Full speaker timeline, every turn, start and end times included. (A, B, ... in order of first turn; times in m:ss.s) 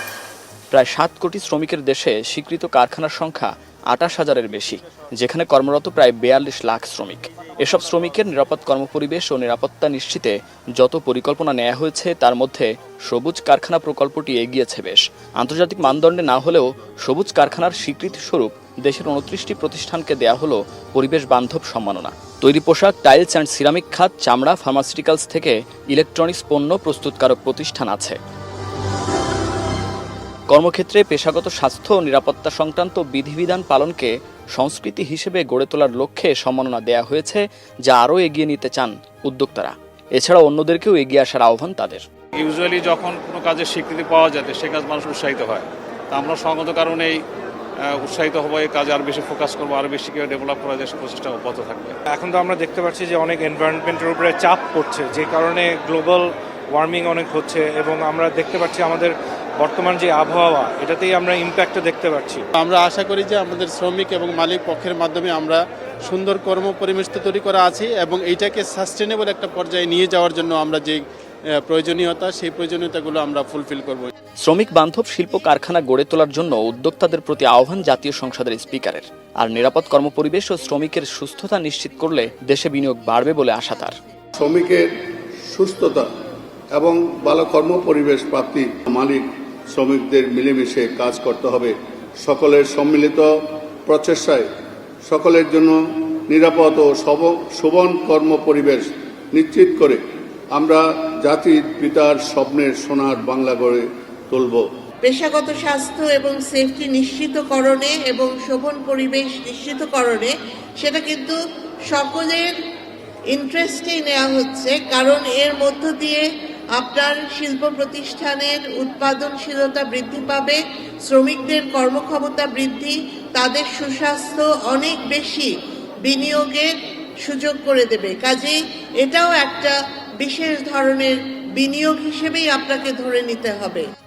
0:00.7-0:28.2 A
0:30.5-0:42.0 A
0:42.4-0:47.2 B
0:47.8-0:52.0 B
0:52.1-1:02.5 C
1:02.6-1:11.0 D
1:11.6-1:14.1 D
1:14.4-1:24.0 A
1:24.4-1:24.9 E
1:25.5-1:26.1 E
1:26.8-1:33.3 E
1:33.9-1:34.5 E
1:35.0-1:40.0 E
1:40.5-1:44.7 E
1:45.0-1:51.4 F
1:51.9-1:52.6 F
1:53.3-2:05.5 F
2:06.1-2:06.7 F
2:07.2-2:13.9 F